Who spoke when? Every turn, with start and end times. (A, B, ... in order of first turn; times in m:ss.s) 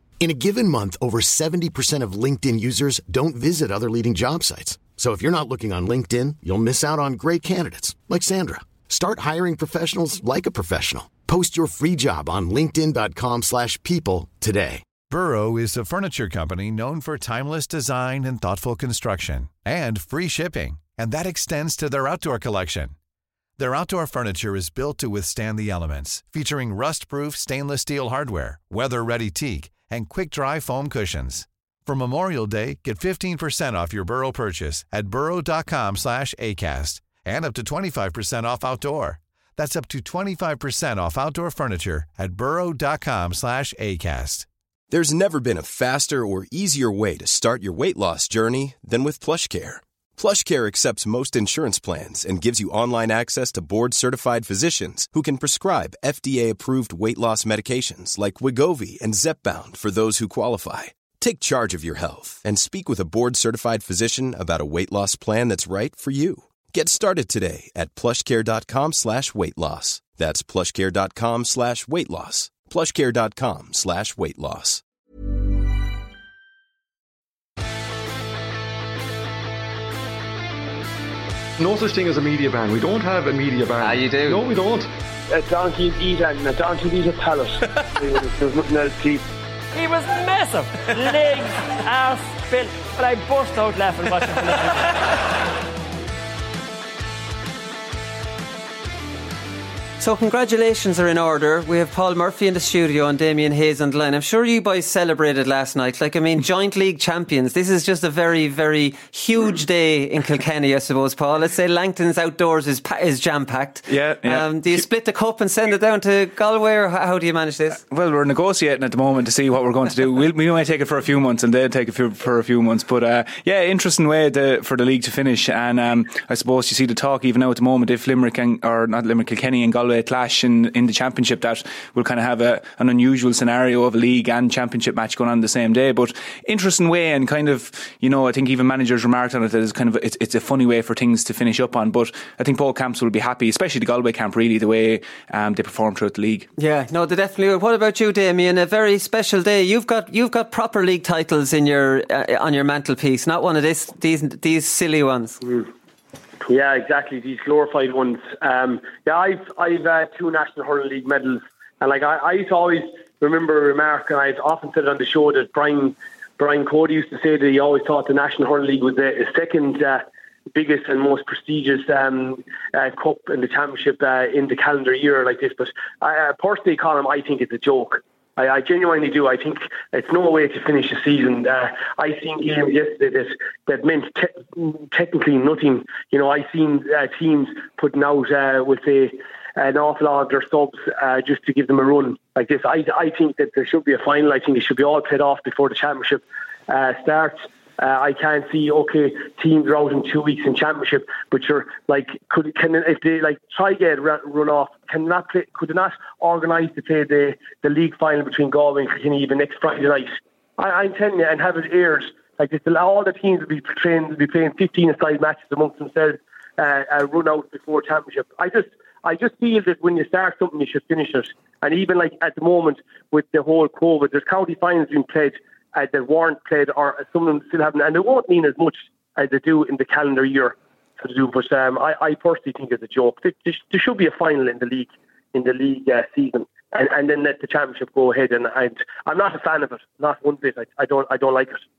0:00.2-0:14.8 A
0:15.1-0:22.9 B
0:23.6-0:44.5 B
0:44.9-1:14.8 C
1:21.6-1:24.9 D
1:24.1-1:24.4 E
1:25.3-1:29.2 F
1:29.7-1:35.0 G
1:40.0-1:57.8 E
1:53.9-1:54.8 H
1:57.9-2:26.5 H
2:26.6-2:35.4 E
2:35.4-2:35.7 F
2:36.4-4:01.6 F